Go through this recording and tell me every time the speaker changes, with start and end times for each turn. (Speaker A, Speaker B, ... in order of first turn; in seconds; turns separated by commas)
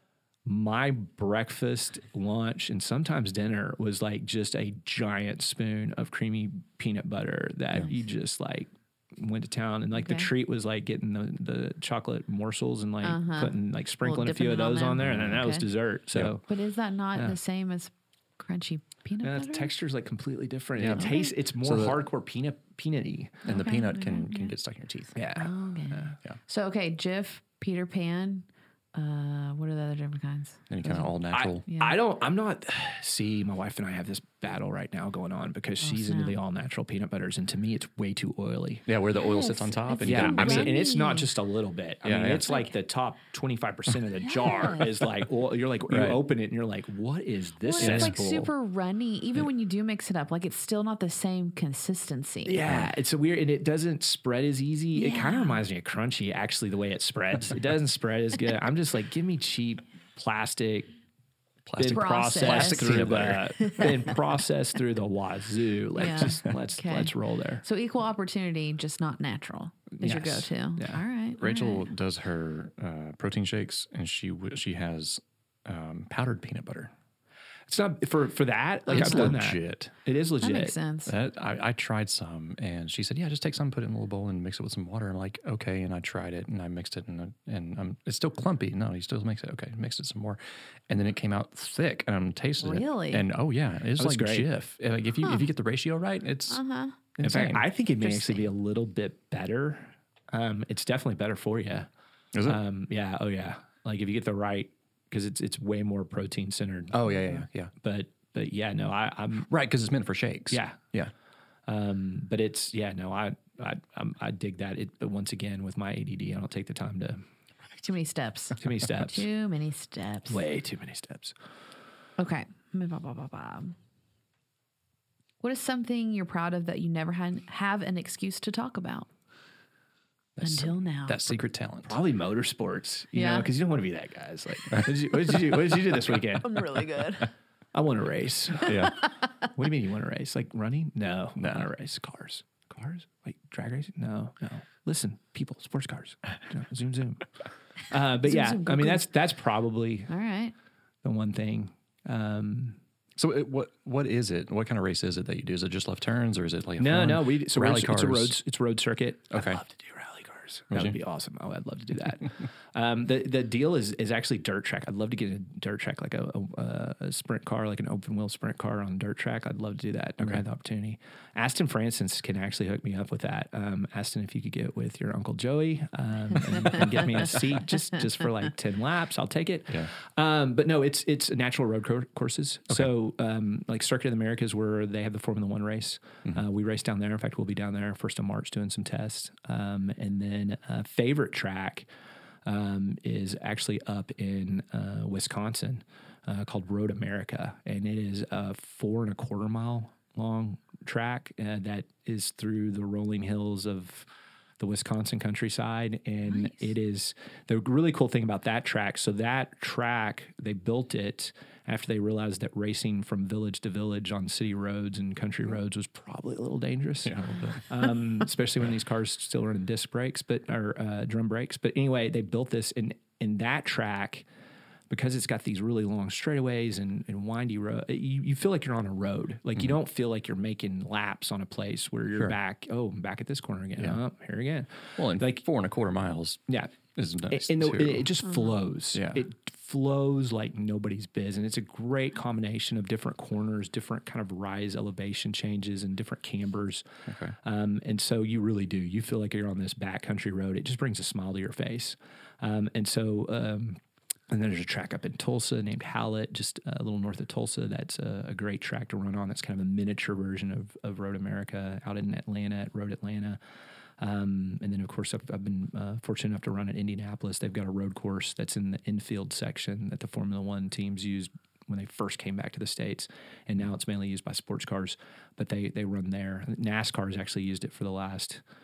Speaker A: 0.5-16.4, Speaker B: 9.9-10.3, Speaker B: 13.0-15.7, Speaker C: 15.0-15.4, Speaker B: 16.5-19.7, Speaker A: 19.2-23.4, Speaker C: 20.8-22.0, Speaker B: 21.0-21.3, Speaker C: 23.4-25.1, Speaker B: 23.4-24.5, Speaker A: 25.1-26.2, Speaker B: 25.4-31.1, Speaker C: 30.7-31.6, Speaker A: 31.3-38.9, Speaker B: 31.7-32.0, Speaker B: 35.8-36.4, Speaker C: 38.9-40.7, Speaker B: 39.2-41.3, Speaker A: 40.0-48.5, Speaker C: 42.0-42.5, Speaker B: 44.2-44.9, Speaker C: 45.9-46.2, Speaker B: 47.6-52.7, Speaker C: 47.8-48.2, Speaker A: 52.5-60.9, Speaker B: 54.9-55.6, Speaker C: 61.6-63.6, Speaker A: 61.8-67.6, Speaker B: 61.8-64.2, Speaker B: 66.0-71.9, Speaker A: 70.0-71.0, Speaker C: 71.4-76.9, Speaker A: 77.7-80.7, Speaker B: 78.9-79.3, Speaker C: 78.9-79.9, Speaker B: 80.4-81.1, Speaker C: 81.0-96.6, Speaker B: 92.6-93.3, Speaker A: 94.0-94.5, Speaker B: 96.5-97.0, Speaker C: 97.2-97.6, Speaker A: 97.2-101.9, Speaker B: 98.0-98.5, Speaker C: 102.3-102.6, Speaker A: 102.5-109.5, Speaker C: 106.9-107.7, Speaker C: 109.5-111.1, Speaker A: 110.5-110.8, Speaker A: 111.7-117.2, Speaker B: 117.8-120.5, Speaker A: 118.6-119.3, Speaker A: 120.3-121.3, Speaker B: 122.2-123.7, Speaker B: 125.4-129.1, Speaker C: 130.4-131.9, Speaker B: 130.4-131.2, Speaker A: 131.9-136.7, Speaker B: 133.1-133.5, Speaker B: 136.4-137.3, Speaker A: 137.7-150.1, Speaker C: 138.6-139.0, Speaker C: 141.4-141.7, Speaker B: 148.2-149.1, Speaker B: 150.1-150.5, Speaker A: 151.0-152.8, Speaker C: 153.2-158.3, Speaker A: 156.8-191.9, Speaker C: 159.3-159.6, Speaker C: 160.7-160.9, Speaker A: 192.4-204.1, Speaker A: 204.6-224.2, Speaker B: 206.3-206.7, Speaker C: 217.0-217.7, Speaker A: 224.9-235.4, Speaker C: 235.0-236.4, Speaker C: 236.9-238.1, Speaker A: 237.3-246.8, Speaker B: 238.3-238.6, Speaker C: 238.9-239.2, Speaker C: 247.1-247.4, Speaker A: 247.4-263.4, Speaker A: 264.0-278.4